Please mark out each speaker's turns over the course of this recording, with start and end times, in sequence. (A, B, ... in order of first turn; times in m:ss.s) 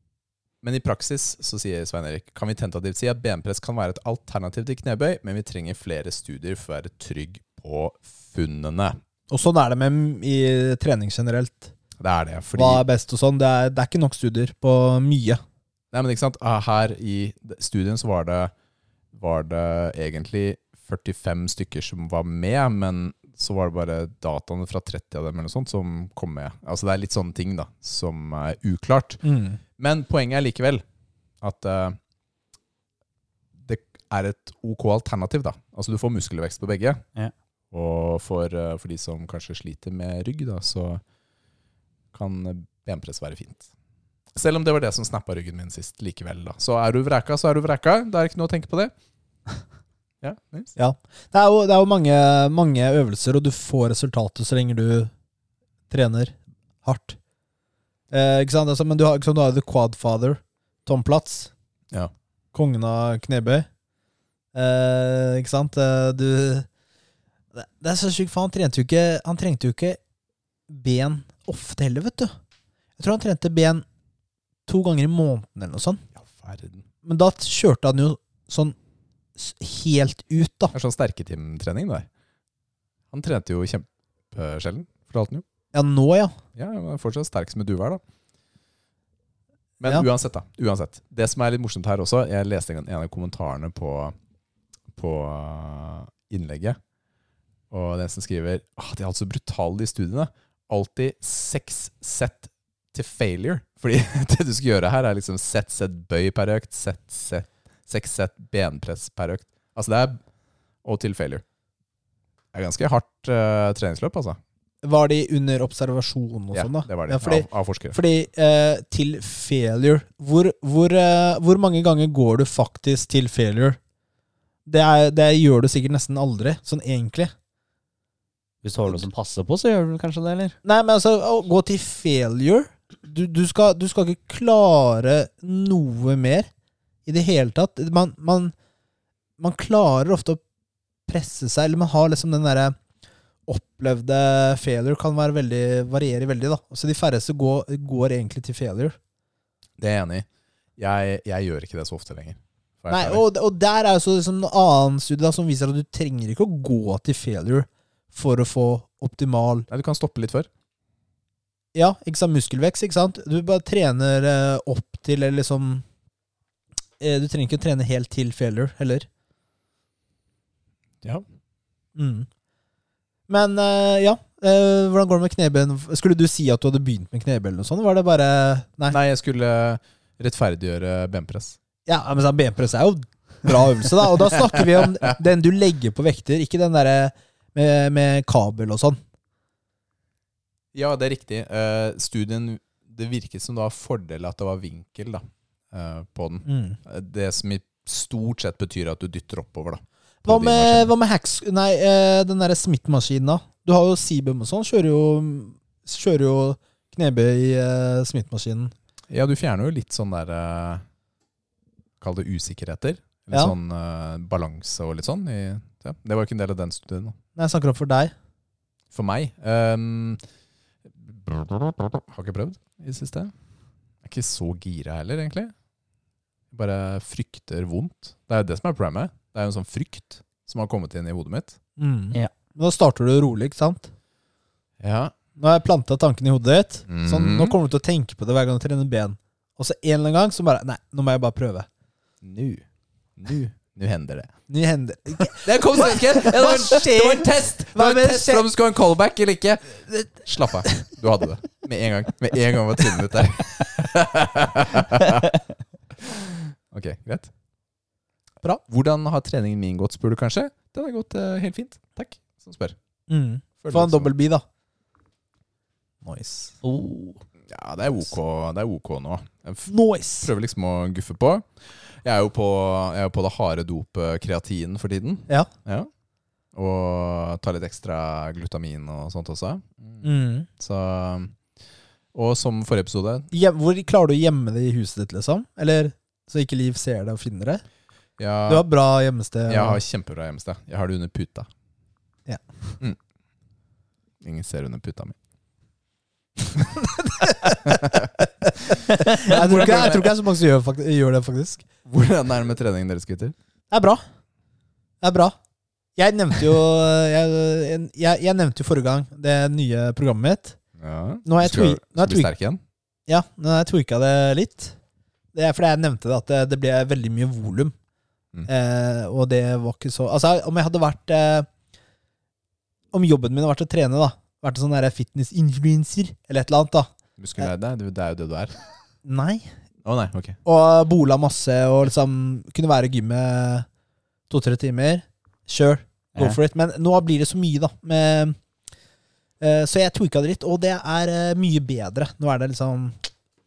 0:00.6-0:09.0 A
0:09.3-0:11.7 B
0:12.0-0:12.8 A
0:12.6-0:15.4 B
0:15.9-0:18.5 A
0:19.1-0:29.2 A
0:29.2-0:29.6 B
0:29.8-0:30.8 A
0:31.4-0:32.0 A
0:33.6-0:37.0 A
0:37.7-0:41.0 A
0:42.1-0:43.7 A
0:44.4-0:48.9 A
0:50.2-0:50.7 A
0:50.8-0:55.1 B
0:55.9-0:57.2 B
0:58.1-1:01.5 B
1:02.5-1:03.7 B
1:04.5-1:06.7 B
1:07.5-1:10.0 B
1:10.7-1:12.3 B
1:13.0-1:13.8 B
1:14.7-1:16.0 B
1:16.2-1:16.8 A
1:17.0-1:18.8 B
1:19.4-1:20.7 B
1:20.7-1:22.1 A
1:23.1-1:25.4 A
1:25.7-1:26.4 B
1:26.6-1:28.0 A
1:29.8-1:34.1 A
1:35.0-1:36.8 A
1:37.7-1:50.2 A
1:50.8-1:51.4 A
1:52.5-1:54.4 A
1:54.8-2:03.8 B
1:56.5-1:58.0 A
2:04.7-2:07.3 B
2:08.6-2:10.6 C
2:10.6-2:16.5 B
2:17.1-2:18.5 B
2:19.4-2:20.4 B
2:21.1-2:22.8 B
2:23.5-2:29.0 B
2:29.8-2:30.3 A
2:30.8-2:33.2 A
2:32.9-2:39.7 B
2:39.7-2:40.5 A
2:41.7-2:45.8 B
2:47.0-2:49.1 B
2:52.0-2:52.3 B
2:53.3-2:59.0 B
2:58.9-3:01.6 A
3:01.9-3:09.0 B
3:10.7-3:20.9 A
3:16.5-3:16.8 B
3:20.3-3:28.7 B
3:29.1-3:30.8 A
3:32.0-3:37.2 A
3:37.4-3:38.1 B
3:38.9-3:40.2 A
3:41.0-3:43.3 A
3:44.0-3:45.5 A
3:46.5-3:51.6 A
3:51.8-3:53.9 B
3:54.8-3:55.1 A
3:55.4-4:01.7 B
3:56.9-3:57.6 A
4:02.2-4:02.6 A
4:03.2-4:04.3 A
4:04.5-4:08.5 B
4:05.3-4:15.3 A
4:16.0-4:17.3 A
4:18.7-4:22.8 A
4:23.1-4:24.4 B
4:23.6-4:24.1 A
4:26.0-4:26.5 B
4:26.6-4:27.2 C
4:27.5-4:29.7 A
4:29.7-4:30.3 B
4:30.2-4:35.9 A
4:36.5-4:40.0 A
4:40.0-4:40.5 B
4:40.6-4:41.3 A
4:42.1-4:43.3 A
4:43.3-4:47.6 B
4:48.2-4:48.6 A
4:48.5-4:49.8 B
4:49.5-4:51.5 A
4:54.2-4:55.2 A
4:56.8-5:01.6 B
4:57.6-4:58.1 A
4:59.2-5:00.1 A
5:01.9-5:03.4 A
5:03.7-5:04.0 B
5:05.0-5:05.4 B
5:06.0-5:10.6 B
5:10.8-5:12.6 A
5:11.2-5:12.3 B
5:13.1-5:14.8 B
5:15.3-5:17.7 B
5:18.5-5:21.5 B
5:22.9-5:26.9 B
5:27.2-5:28.5 A
5:29.0-5:29.5 B
5:29.8-5:30.4 A
5:30.4-5:33.7 B
5:34.3-5:38.4 B
5:39.4-5:43.0 B